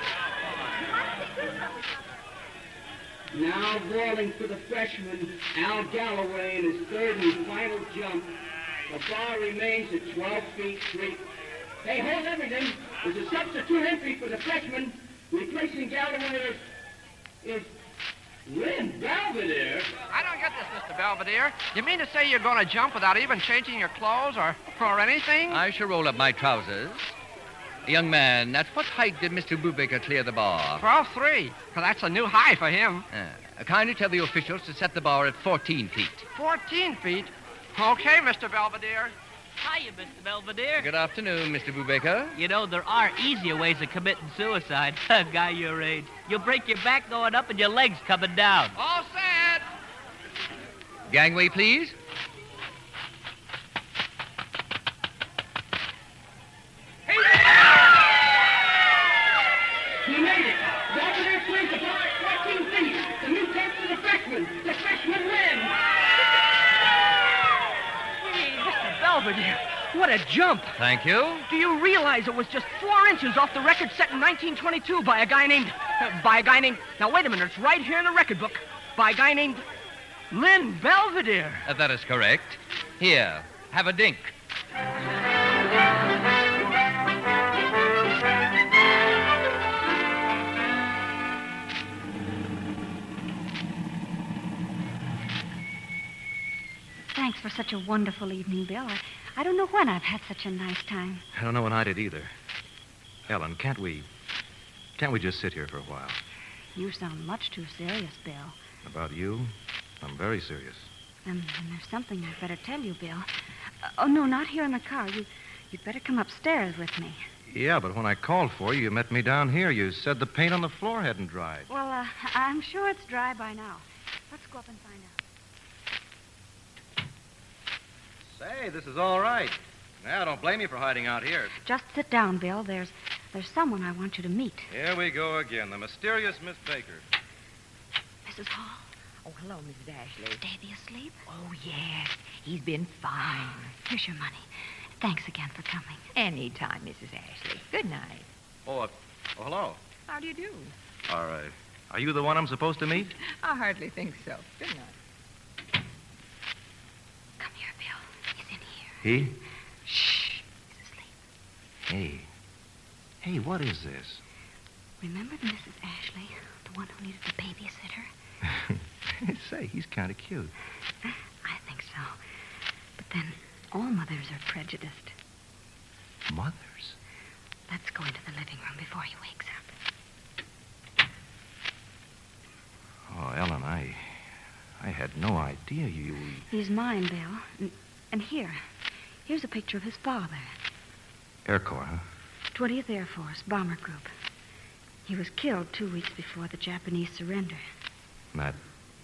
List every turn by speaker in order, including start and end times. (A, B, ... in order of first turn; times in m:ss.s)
0:03.3-0:08.3 A
0:08.9-0:11.2 A
0:11.8-0:16.6 A
0:17.4-0:17.7 A
0:18.4-0:19.9 A
0:20.1-0:25.6 B
0:25.5-0:27.1 C
0:27.8-0:30.8 C
0:30.8-0:33.0 B
0:33.1-0:36.2 C
0:36.3-0:39.1 B
0:39.6-0:40.9 D
0:40.8-0:42.3 C
0:42.3-0:48.7 D
0:48.7-0:49.6 B
0:51.1-0:51.9 C
1:00.0-1:05.7 A
1:08.2-1:10.7 E
1:10.8-1:11.5 C
1:11.5-1:19.6 E
1:20.3-1:21.6 E
1:21.6-1:24.3 C
1:37.1-1:41.2 F
1:41.3-1:42.3 G
1:43.3-1:44.0 G
1:45.0-1:46.2 G
1:46.7-1:48.6 F
1:48.8-1:50.9 G
1:51.2-1:53.3 F
1:53.8-1:57.2 F
1:57.5-2:01.7 G
2:01.7-2:05.1 F
2:08.3-2:11.5 G
2:11.6-2:14.7 F
2:14.7-2:17.0 G
2:18.2-2:18.8 F
2:19.2-2:20.4 H
2:20.4-2:21.2 F
2:21.3-2:23.7 H
2:23.8-2:24.4 F
2:25.0-2:26.0 F
2:26.1-2:28.3 H
2:28.6-2:29.8 G
2:30.1-2:30.7 H
2:31.1-2:33.1 G
2:33.2-2:34.9 H
2:37.4-2:38.9 F
2:39.0-2:39.3 G
2:39.8-2:41.1 F
2:41.9-2:42.3 G
2:43.2-2:44.2 G
2:45.0-2:48.1 F
2:48.6-2:50.5 G
2:51.0-2:52.2 F
2:53.0-2:55.1 F
2:56.3-2:57.0 G
2:57.7-2:59.7 F
3:03.1-3:04.1 G
3:04.8-3:06.4 G
3:06.5-3:08.6 F
3:09.2-3:10.5 F
3:11.4-3:12.0 G
3:12.5-3:14.1 F
3:15.0-3:17.6 F